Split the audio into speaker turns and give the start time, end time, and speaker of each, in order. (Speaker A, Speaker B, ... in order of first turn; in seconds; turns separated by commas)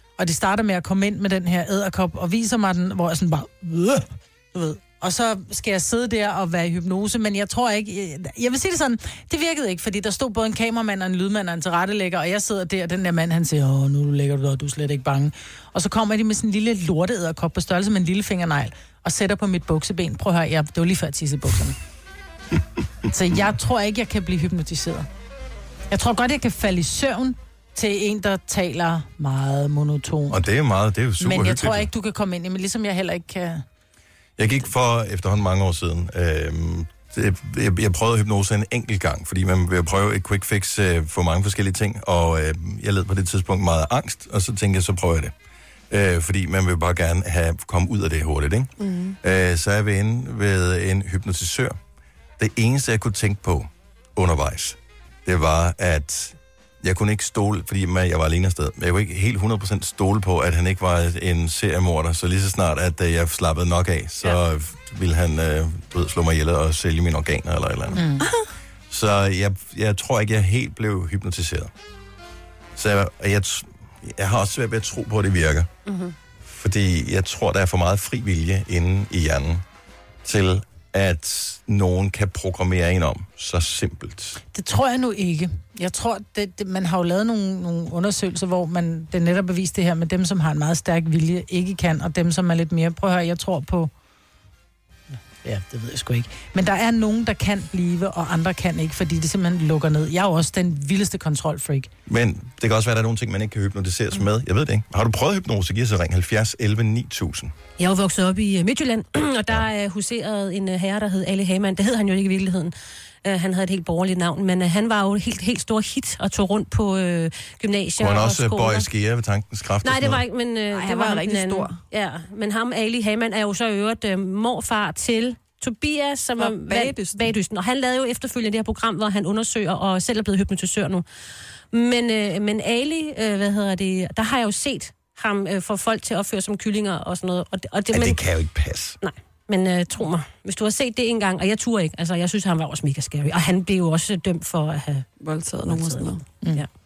Speaker A: 0.2-21.8, Speaker A: 23.1-25.1, Speaker A: 25.9-30.4, Speaker B: 30.3-31.9, Speaker A: 31.2-33.6, Speaker B: 34.4-45.3, Speaker B: 45.9-51.8, Speaker C: 48.8-49.2, Speaker B: 52.4-68.0, Speaker A: 67.9-68.3, Speaker B: 68.9-71.7, Speaker B: 72.8-75.7, Speaker D: 75.8-76.1, Speaker B: 76.5-79.6, Speaker B: 80.2-84.4, Speaker A: 84.5-93.9, Speaker A: 95.4-101.9, Speaker B: 102.1-107.5, Speaker D: 107.8-118.9, Speaker B: 118.0-120.2, Speaker D: 119.8-131.0, Speaker C: 120.7-121.7, Speaker C: 126.4-127.3, Speaker D: 131.7-138.2, Speaker B: 137.9-139.0, Speaker D: 139.0-145.1, Speaker C: 145.2-146.2, Speaker D: 145.7-146.7